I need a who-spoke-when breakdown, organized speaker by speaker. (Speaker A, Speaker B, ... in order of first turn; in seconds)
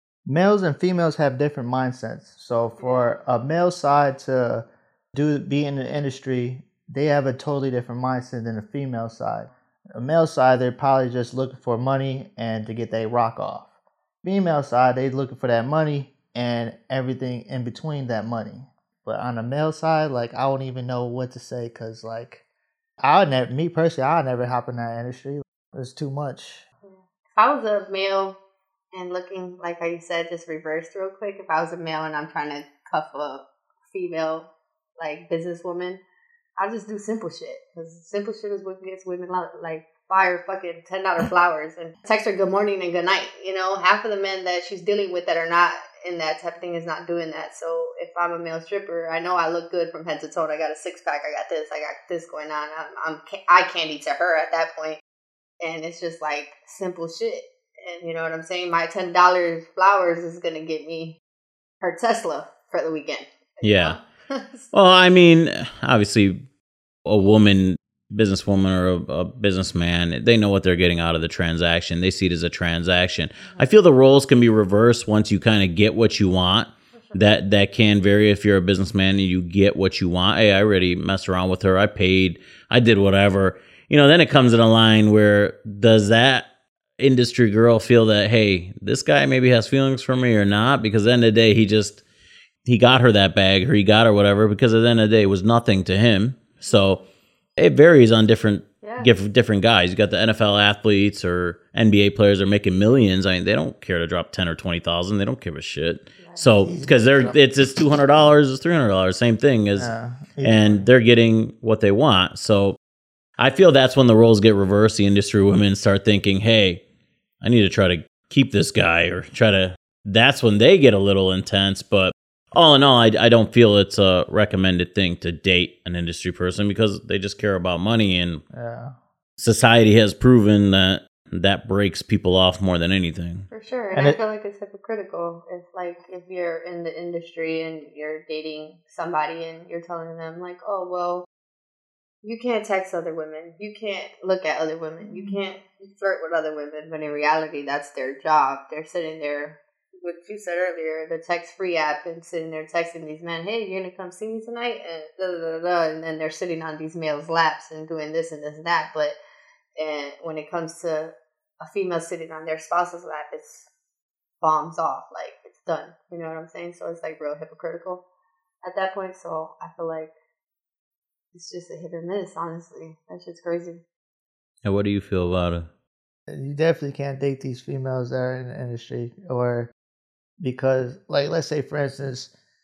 Speaker A: 0.3-13.7, 14.2-22.4, 23.0-26.6, 106.6-107.4, 109.8-110.9, 128.5-128.9, 133.9-134.2, 145.1-145.4, 176.3-179.7, 180.4-182.3
Speaker B: 2.8-3.1, 26.8-28.4, 28.9-36.0, 36.6-55.0, 55.6-61.2, 61.8-64.7, 73.4-73.7, 96.7-97.0, 98.8-99.1, 106.2-106.5, 133.5-141.3, 142.2-159.2, 159.8-163.7, 164.4-168.0, 168.6-170.1, 171.3-173.8
Speaker C: 63.6-64.0, 64.7-66.5, 67.0-92.0, 92.7-97.0, 97.6-109.9, 110.4-112.8, 113.4-116.8, 117.4-128.4, 129.4-133.5, 174.7-175.7